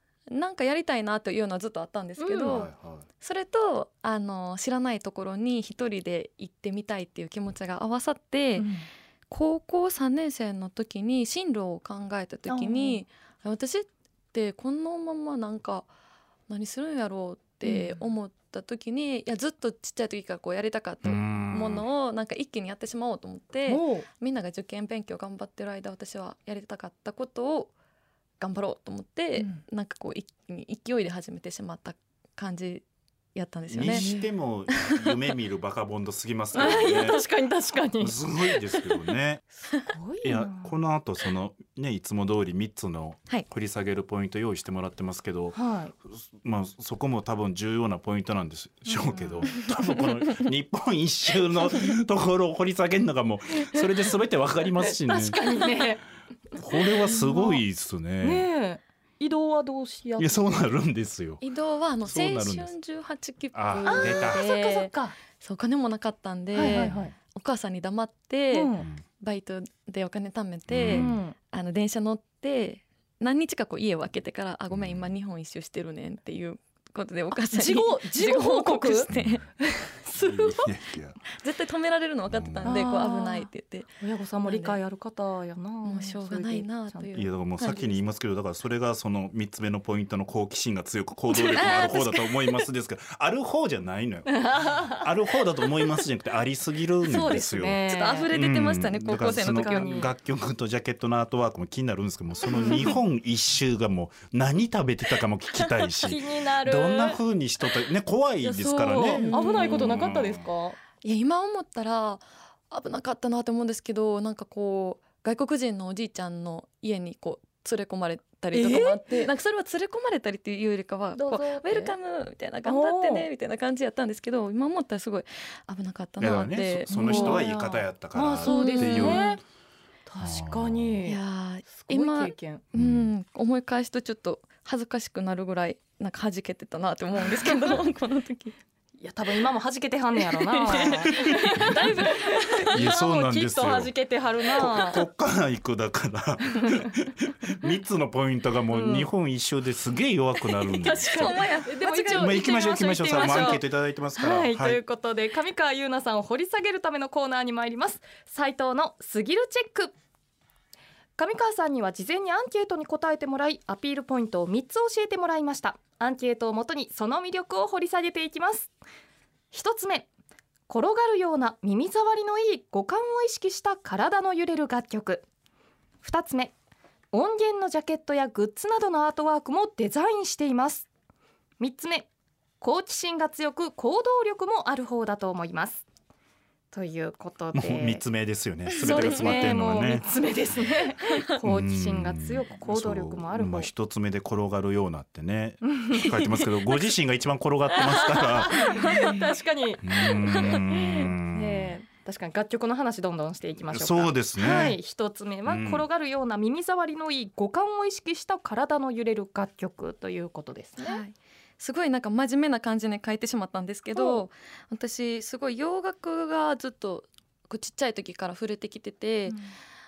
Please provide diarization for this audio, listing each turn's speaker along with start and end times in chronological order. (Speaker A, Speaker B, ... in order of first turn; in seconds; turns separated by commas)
Speaker A: 0.3-8.7, Speaker B: 2.2-2.7, Speaker C: 2.5-3.1, Speaker B: 8.6-8.8, Speaker A: 9.3-15.9, Speaker B: 12.5-13.0, Speaker A: 16.5-27.7, Speaker B: 17.6-18.0, Speaker C: 21.0-21.9, Speaker B: 23.7-24.1, Speaker A: 28.4-34.1, Speaker C: 33.7-37.2, Speaker B: 33.9-34.3, Speaker A: 34.7-34.9, Speaker A: 36.5-37.2, Speaker B: 36.6-39.1, Speaker C: 38.0-39.4, Speaker B: 39.6-40.8, Speaker C: 40.2-55.4, Speaker B: 45.5-45.9, Speaker B: 48.9-49.5, Speaker B: 53.6-53.9, Speaker B: 54.8-56.0, Speaker C: 56.5-58.5, Speaker B: 56.8-57.6, Speaker B: 58.2-60.5, Speaker C: 60.2-61.4, Speaker A: 61.4-79.5, Speaker C: 62.0-62.7, Speaker C: 63.5-64.4, Speaker B: 63.9-65.2, Speaker B: 66.5-67.1, Speaker C: 66.7-67.1, Speaker B: 68.5-68.9, Speaker C: 70.7-71.2, Speaker B: 70.9-71.4, Speaker C: 74.7-75.0, Speaker B: 77.3-80.7, Speaker C: 79.1-79.4, Speaker C: 80.2-81.2, Speaker A: 81.3-84.8, Speaker C: 82.3-82.9, Speaker B: 82.6-83.5, Speaker B: 84.0-87.2, Speaker A: 85.8-88.0, Speaker C: 87.1-110.4, Speaker B: 91.3-92.0, Speaker A: 91.6-92.4, Speaker B: 94.3-95.1, Speaker B: 97.0-98.3, Speaker A: 97.9-100.1, Speaker B: 99.1-100.1, Speaker B: 102.5-103.0, Speaker B: 106.0-107.2, Speaker B: 108.4-110.8, Speaker A: 109.2-110.2, Speaker A: 111.0-127.5, Speaker B: 118.5-119.3, Speaker B: 121.1-122.0, Speaker B: 122.7-123.3, Speaker C: 126.2-129.4, Speaker B: 126.9-129.4, Speaker A: 128.4-129.4, Speaker B: 130.1-132.7, Speaker C: 130.2-131.0, Speaker A: 131.0-138.6, Speaker C: 132.8-133.1, Speaker B: 137.3-137.8, Speaker B: 139.0-145.1, Speaker A: 140.3-142.7, Speaker C: 142.7-143.9, Speaker C: 144.6-151.4, Speaker B: 148.7-149.1, Speaker B: 150.7-159.9, Speaker A: 150.8-153.6, Speaker C: 152.1-154.8, Speaker B: 161.2-168.7, Speaker B: 169.5-170.1, Speaker B: 170.7-175.3, Speaker B: 176.0-176.6, Speaker B: 177.1-180.9, Speaker B: 181.6-182.1, Speaker B: 182.6-185.8, Speaker B: 186.7-188.1, Speaker C: 187.5-190.1, Speaker A: 188.8-189.6, Speaker B: 188.8-193.7, Speaker A: 191.1-191.3, Speaker C: 191.4-198.8, Speaker B: 195.7-196.1, Speaker B: 197.7-211.0, Speaker A: 198.8-199.2, Speaker C: 199.8-201.8, Speaker A: 200.4-201.1, Speaker C: 203.7-204.8, Speaker C: 205.5-205.9, Speaker A: 210.8-219.4, Speaker B: 213.9-214.2